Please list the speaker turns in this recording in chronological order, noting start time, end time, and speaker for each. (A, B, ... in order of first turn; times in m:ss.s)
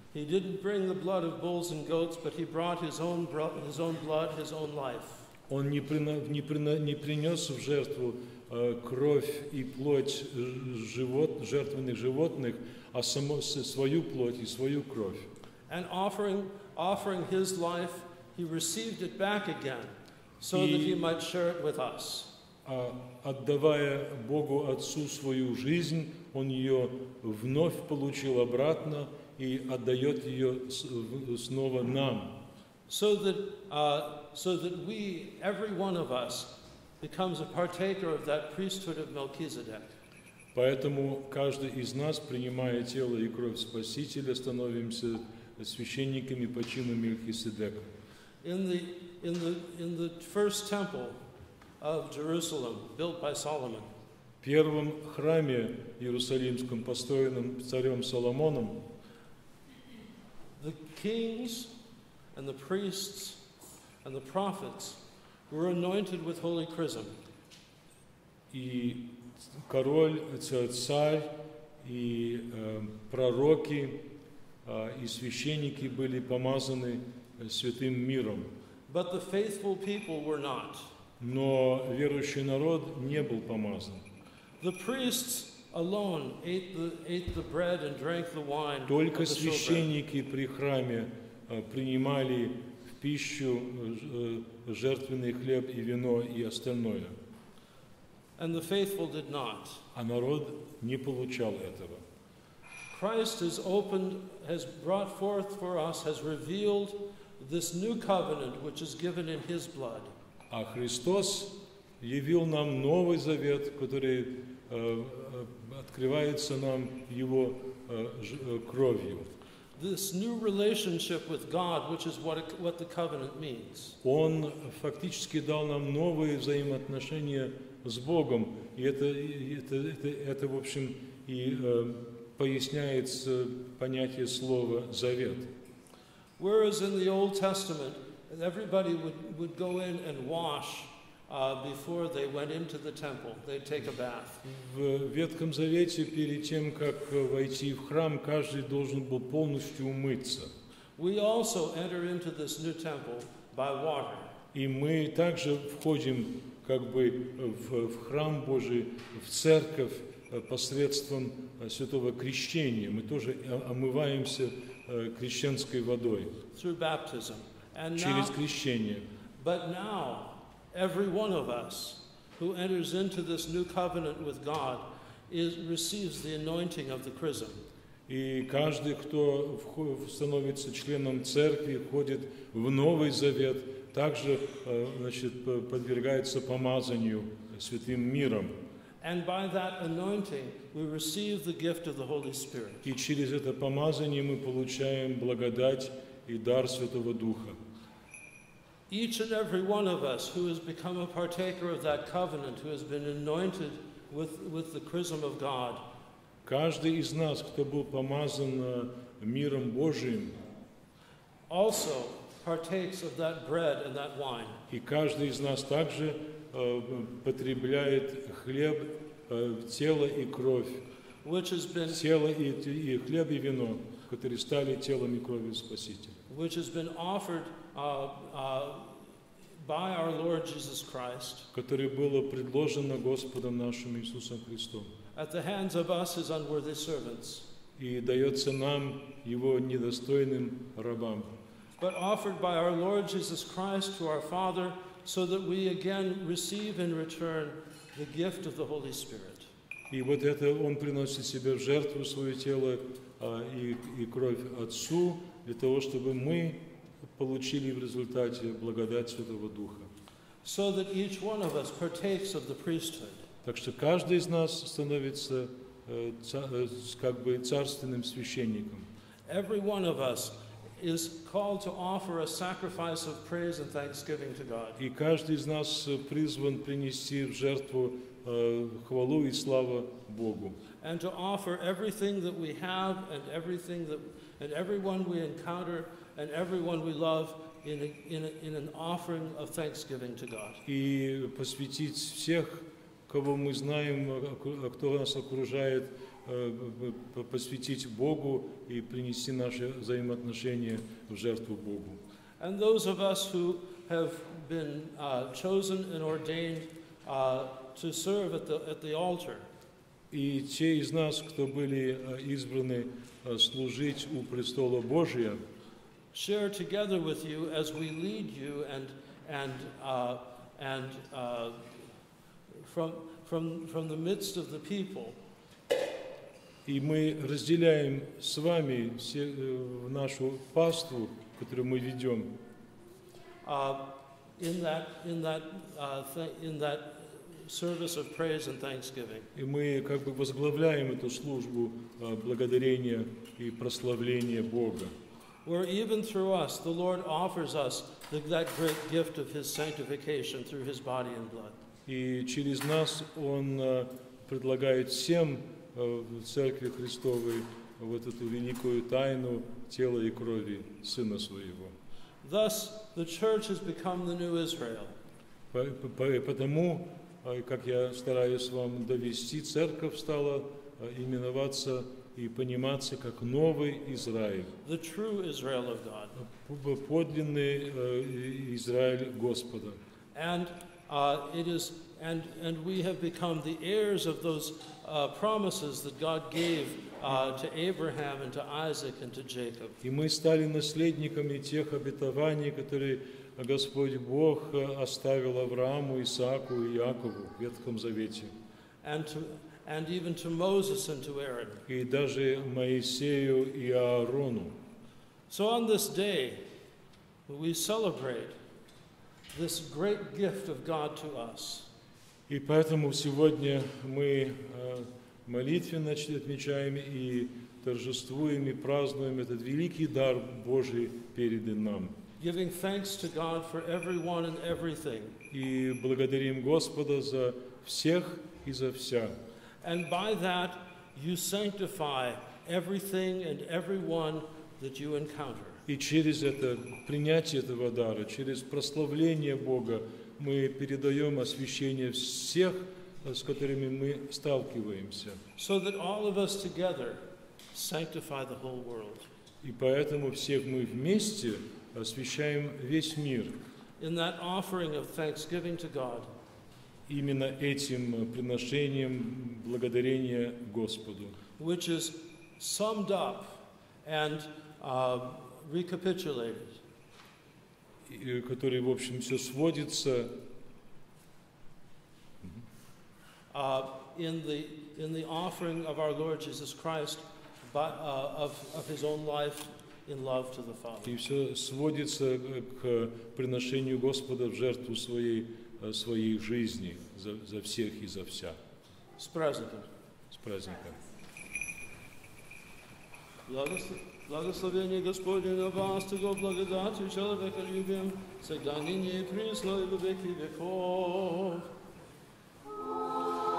0:00.1-0:05.3 A
0:05.5-0:15.2 B
0:15.7-0:22.3 A
0:20.5-0:21.0 B
0:22.6-0:32.3 B
0:32.9-0:40.0 A
0:40.5-0:47.9 B
0:48.4-0:51.2 A
0:51.8-0:53.9 A
0:54.4-0:58.8 B
1:00.6-1:01.7 A
1:02.3-1:03.4 A
1:04.0-1:07.1 A
1:08.5-1:14.1 B
1:14.6-1:18.5 B
1:18.9-1:20.9 A
1:21.2-1:24.0 B
1:24.6-1:29.9 A
1:28.9-1:37.1 B
1:38.4-1:39.8 A
1:39.9-1:42.0 B
1:42.9-1:50.1 A
1:50.5-1:59.3 B
1:59.8-2:04.0 A
2:04.0-2:15.5 B
2:16.4-2:24.4 A
2:24.4-2:30.5 B
2:31.0-2:34.3 A
2:34.5-2:46.3 B
2:46.5-2:48.4 A
2:48.0-2:49.0 B
2:49.4-2:57.6 A
2:58.1-3:08.5 B
3:09.0-3:12.8 A
3:12.8-3:17.6 B
3:18.9-3:25.8 A
3:26.4-3:30.4 B
3:31.5-3:34.6 A
3:34.7-3:40.8 B
3:41.2-3:42.0 A
3:41.9-3:46.2 B
3:46.3-3:49.0 A
3:49.6-3:51.5 A
3:51.5-3:54.9 B
3:55.1-3:57.5 A
3:57.8-4:01.3 B
4:01.8-4:09.5 A
4:09.9-4:16.6 B
4:17.1-4:19.9 B
4:20.4-4:23.2 A
4:23.4-4:28.9 B
4:29.3-4:34.8 A
4:34.8-4:40.6 B
4:40.8-4:50.6 A
4:50.6-5:02.0 B
5:02.4-5:09.4 A
5:10.1-5:15.4 B
5:16.1-5:21.7 A
5:22.6-5:25.2 A
5:26.6-5:32.3 B
5:33.4-5:39.3 A
5:39.3-5:44.9 B
5:45.4-5:51.6 A
5:51.9-6:01.7 B
6:02.2-6:04.9 A
6:05.5-6:14.5 B
6:14.6-6:16.1 A
6:16.2-6:19.8 B
6:20.1-6:29.8 A
6:29.8-6:38.3 B
6:38.8-6:41.6 A
6:41.7-6:44.5 B
6:45.3-6:46.4 A
6:47.3-6:48.3 A
6:49.3-6:51.7 A
6:52.3-7:01.9 B
7:02.2-7:05.2 A
7:05.3-7:09.1 B
7:09.6-7:15.6 A
7:15.7-7:25.2 B
7:25.4-7:27.0 A
7:27.5-7:29.1 A
7:29.4-7:33.3 B
7:33.8-7:36.1 A
7:36.9-7:41.2 B
7:41.4-7:46.6 A
7:47.9-7:50.2 B
7:53.3-8:00.9 A
8:00.8-8:08.4 B
8:09.0-8:09.7 A
8:10.1-8:10.8 B
8:13.3-8:21.5 A